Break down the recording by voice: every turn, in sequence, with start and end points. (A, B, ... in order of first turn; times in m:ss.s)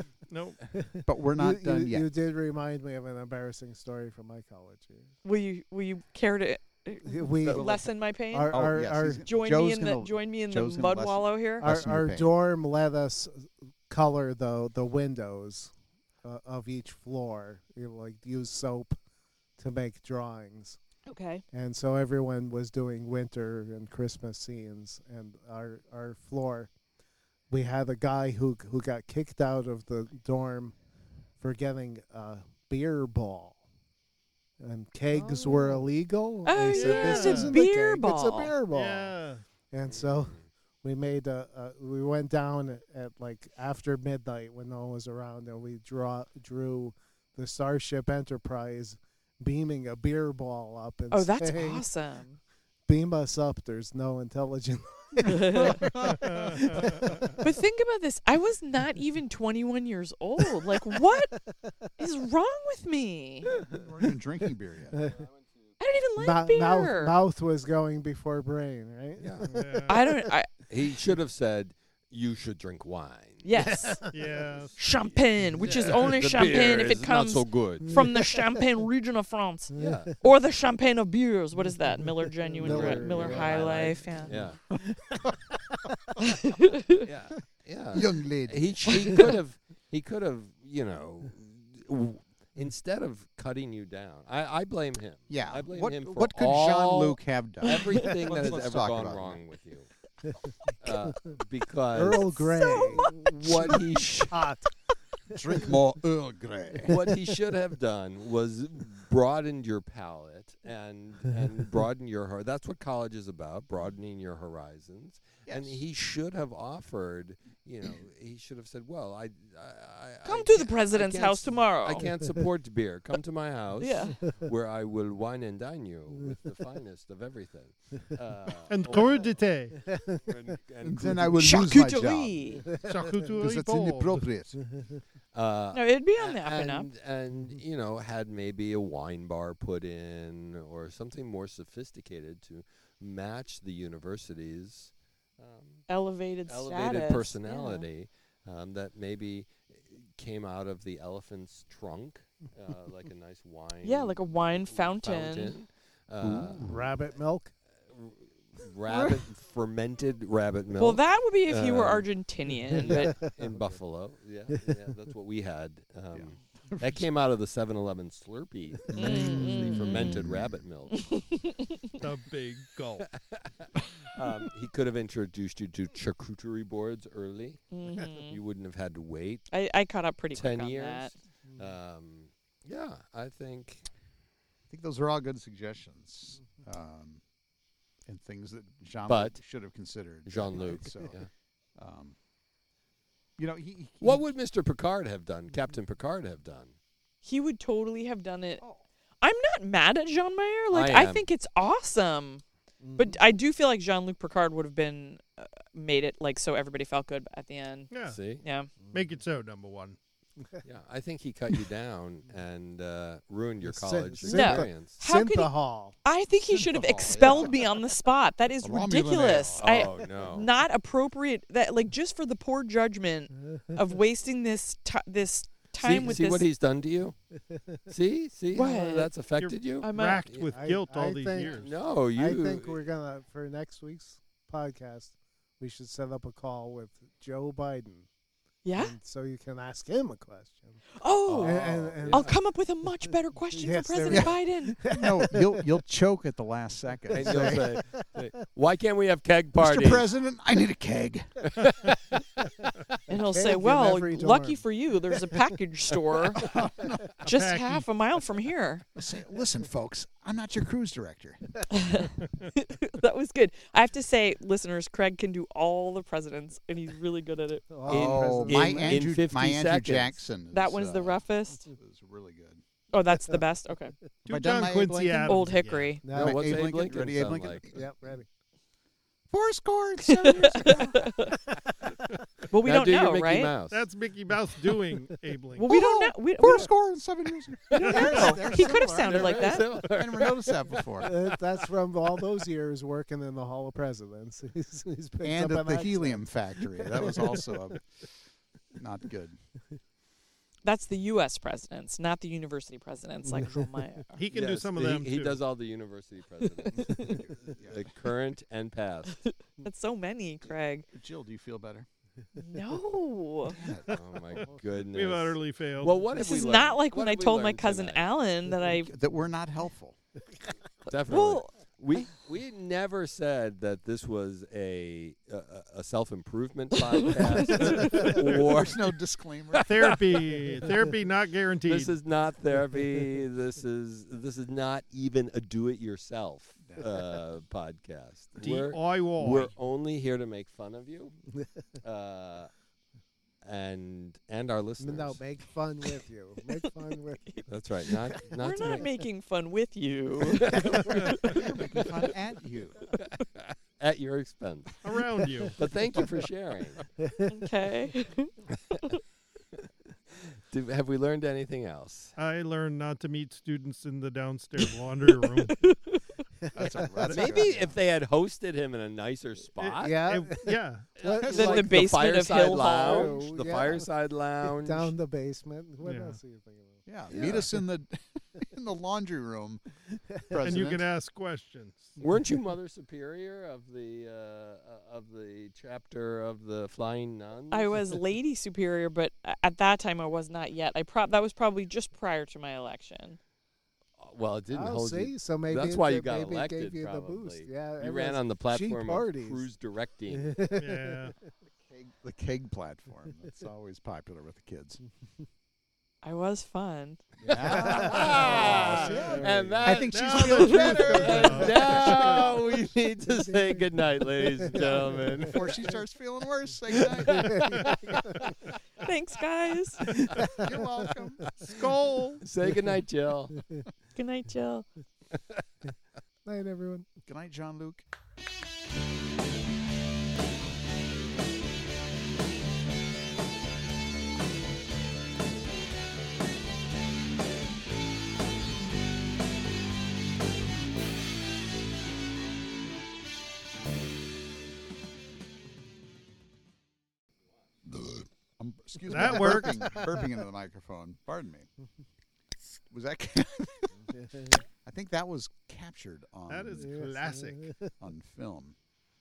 0:00.3-0:00.6 A
0:00.7-0:05.1 B
0:01.0-0:02.1 C
0:05.2-0:11.7 D
0:07.0-0:09.3 B
0:07.4-0:07.9 E
0:08.5-0:12.4 C
0:11.6-0:15.7 B
0:16.2-0:18.9 B
0:19.6-0:20.8 B
0:21.1-0:21.4 D
0:21.5-0:26.7 B
0:27.5-0:30.7 B
0:31.4-0:33.6 B
0:34.6-0:39.1 B
0:35.1-0:35.8 D
0:36.4-0:38.6 D
0:36.7-0:37.6 A
0:38.7-0:39.4 A
0:39.7-0:51.8 B
0:39.9-0:40.5 E
0:51.1-0:52.4 D
0:52.9-0:57.3 B
0:55.2-0:55.8 D
0:55.7-0:56.6 C
0:56.0-0:57.4 A
0:57.4-1:01.3 D
1:00.7-1:01.9 B
1:02.0-1:03.5 D
1:03.4-1:03.8 B
1:03.6-1:05.0 C
1:04.9-1:05.2 B
1:05.0-1:05.4 E
1:05.8-1:07.2 D
1:06.2-1:10.2 B
1:09.2-1:09.4 E
1:09.4-1:10.0 A
1:09.9-1:10.6 D
1:10.7-1:13.5 E
1:13.4-1:14.0 D
1:13.5-1:14.4 B
1:14.1-1:14.8 A
1:14.8-1:24.4 D
1:14.8-1:18.1 E
1:15.4-1:15.9 B
1:17.8-1:18.5 B
1:19.7-1:20.2 B
1:19.7-1:20.1 E
1:21.5-1:24.8 B
1:22.6-1:24.6 E
1:26.2-1:27.0 D
1:27.0-1:39.9 E
1:27.9-1:29.3 C
1:35.3-1:39.4 C
1:37.7-1:38.1 D
1:37.9-1:38.3 B
1:40.2-1:41.2 B
1:40.8-1:44.4 E
1:41.9-1:44.7 B
1:42.6-1:43.1 D
1:45.3-1:45.8 B
1:45.3-1:46.9 C
1:46.8-2:09.4 E
1:55.4-1:55.8 C
2:00.2-2:02.0 D
2:02.0-2:02.4 B
2:03.8-2:04.2 D
2:08.7-2:09.8 A
2:09.8-2:10.3 B
2:10.1-2:11.7 E
2:10.8-2:12.4 C
2:11.4-2:12.6 D
2:12.5-2:13.3 B
2:12.9-2:14.3 A
2:13.4-2:14.6 C
2:14.5-2:15.0 B
2:15.3-2:25.8 E
2:15.7-2:16.9 D
2:25.9-2:27.8 D
2:26.5-2:37.0 E
2:33.8-2:35.6 D
2:36.2-2:36.6 C
2:36.4-2:37.5 B
2:37.9-2:42.1 E
2:40.8-2:43.2 D
2:42.7-2:43.3 B
2:42.7-2:51.0 E
2:46.1-2:47.0 C
2:48.9-2:50.6 C
2:48.9-2:50.2 D
2:49.0-2:50.1 B
2:50.9-2:51.9 D
2:52.0-2:53.1 A
2:53.0-2:53.5 E
2:54.0-2:59.5 E
2:57.7-2:58.4 D
2:59.5-3:01.1 D
3:00.3-3:03.8 E
3:01.5-3:01.7 B
3:04.7-3:07.2 C
3:08.0-3:11.2 C
3:09.0-3:09.4 E
3:10.2-3:11.3 E
3:11.8-3:12.1 C
3:13.4-3:14.2 C
3:14.0-3:16.7 E
3:17.2-3:18.6 D
3:19.2-3:22.4 D
3:20.7-3:21.2 E
3:22.8-3:23.2 B
3:23.0-3:27.9 D
3:27.9-3:28.2 A
3:28.0-3:28.4 E
3:28.4-3:28.7 D
3:28.8-3:29.1 B
3:28.9-3:30.0 A
3:30.6-3:35.0 E
3:33.6-3:36.0 B
3:34.2-3:46.5 D
3:36.4-3:37.6 C
3:38.6-3:39.7 C
3:39.4-3:40.5 E
3:43.5-3:43.8 B
3:45.8-3:47.1 E
3:47.5-3:47.8 B
3:47.9-3:50.5 E
3:48.5-3:49.1 D
3:49.4-3:51.8 A
3:49.8-3:50.3 D
3:50.5-3:58.1 B
3:51.4-3:52.8 E
3:58.6-3:59.0 D
3:58.7-4:00.8 B
4:01.0-4:01.6 D
4:01.2-4:02.4 E
4:01.4-4:02.4 B
4:02.1-4:04.8 D
4:03.4-4:05.6 B
4:04.1-4:04.4 C
4:04.9-4:07.6 C
4:07.1-4:08.0 B
4:07.1-4:10.1 E
4:09.6-4:11.4 C
4:11.4-4:12.6 E
4:13.1-4:16.5 D
4:13.1-4:14.6 B
4:16.3-4:17.2 C
4:17.2-4:18.8 D
4:17.2-4:17.8 A
4:19.0-4:21.4 C
4:21.7-4:27.8 D
4:27.7-4:29.1 B
4:27.9-4:30.2 E
4:27.9-4:32.6 C
4:30.5-4:31.6 D
4:32.9-4:33.9 D
4:33.2-4:33.4 B
4:34.2-4:36.0 A
4:34.3-4:35.4 C
4:35.2-4:36.1 D
4:36.0-4:36.6 B
4:36.1-4:38.1 C
4:36.1-4:37.7 E
4:37.7-4:38.2 B
4:39.3-4:41.1 C
4:40.0-4:41.3 D
4:42.5-4:43.6 D
4:42.6-4:43.8 E
4:43.7-4:45.7 A
4:45.6-4:46.8 D
4:45.7-4:49.2 C
4:47.7-4:49.8 D
4:47.8-4:48.3 A
4:47.9-4:49.2 B
4:48.4-4:51.3 E
4:49.9-4:51.1 C
4:51.0-4:56.3 B
4:55.2-4:57.9 C
4:56.9-4:57.3 B
4:58.7-4:59.4 C
5:00.6-5:04.1 D
5:03.2-5:04.0 B
5:04.1-5:05.4 A
5:04.3-5:09.2 E
5:06.5-5:07.3 D
5:07.1-5:07.9 C
5:09.2-5:10.8 D
5:10.9-5:11.9 C
5:12.4-5:13.6 D
5:13.4-5:14.0 C
5:13.9-5:16.0 A
5:13.9-5:18.1 E
5:16.2-5:18.9 D
5:18.8-5:20.0 C
5:20.9-5:30.4 E
5:20.9-5:22.1 D
5:26.9-5:28.2 D
5:27.9-5:28.4 A
5:28.5-5:29.9 C
5:29.6-5:31.9 A
5:31.6-5:41.2 E
5:36.6-5:36.9 C
5:38.4-5:39.5 A
5:41.8-5:42.5 E
5:43.4-5:45.2 E
5:44.8-5:47.2 B
5:46.6-5:51.4 D
5:47.5-5:49.0 E
5:50.2-5:52.1 E
5:51.2-5:52.9 C
5:53.0-5:54.8 E
5:54.8-5:55.6 A
5:55.5-5:56.8 E
5:57.0-5:57.3 B
5:57.3-5:58.3 D
6:00.5-6:02.1 E
6:02.2-6:05.7 A
6:05.4-6:06.0 D
6:06.5-6:07.8 C
6:06.6-6:07.5 A
6:07.1-6:10.1 E
6:09.6-6:10.9 A
6:09.8-6:11.8 B
6:11.0-6:14.9 E
6:11.2-6:11.6 C
6:11.2-6:13.2 D
6:12.3-6:16.8 B
6:15.8-6:16.2 A
6:16.8-6:19.7 C
6:17.1-6:17.5 E
6:20.2-6:20.6 B
6:20.3-6:20.9 C
6:20.4-6:21.9 A
6:22.0-6:27.8 E
6:27.5-6:33.2 D
6:34.0-6:40.4 E
6:34.5-6:39.5 B
6:40.1-6:41.1 B
6:40.6-6:41.1 A
6:41.6-6:44.8 C
6:46.0-6:47.0 D
6:47.2-6:51.4 C
6:47.2-6:49.8 B
6:47.4-6:55.6 E
6:49.9-6:52.4 A
6:50.4-6:50.8 D
6:51.0-6:52.1 B
6:53.1-6:55.7 B
6:55.2-6:57.3 C
6:57.0-6:58.3 E
6:57.0-6:58.0 B
6:57.4-6:57.7 A
6:58.8-7:00.0 D
7:00.0-7:00.5 B
7:00.2-7:01.5 C
7:01.4-7:02.2 A
7:02.2-7:03.4 E
7:03.4-7:03.6 B
7:04.0-7:04.6 D
7:06.2-7:07.0 B
7:07.0-7:07.8 C
7:27.7-7:31.5 C
7:28.8-7:30.1 B
7:28.9-7:29.6 A
7:32.5-7:33.7 C
7:33.9-7:34.4 B
7:34.6-7:36.8 C
7:36.3-7:37.5 A
7:36.6-7:37.7 B
7:37.8-7:38.6 C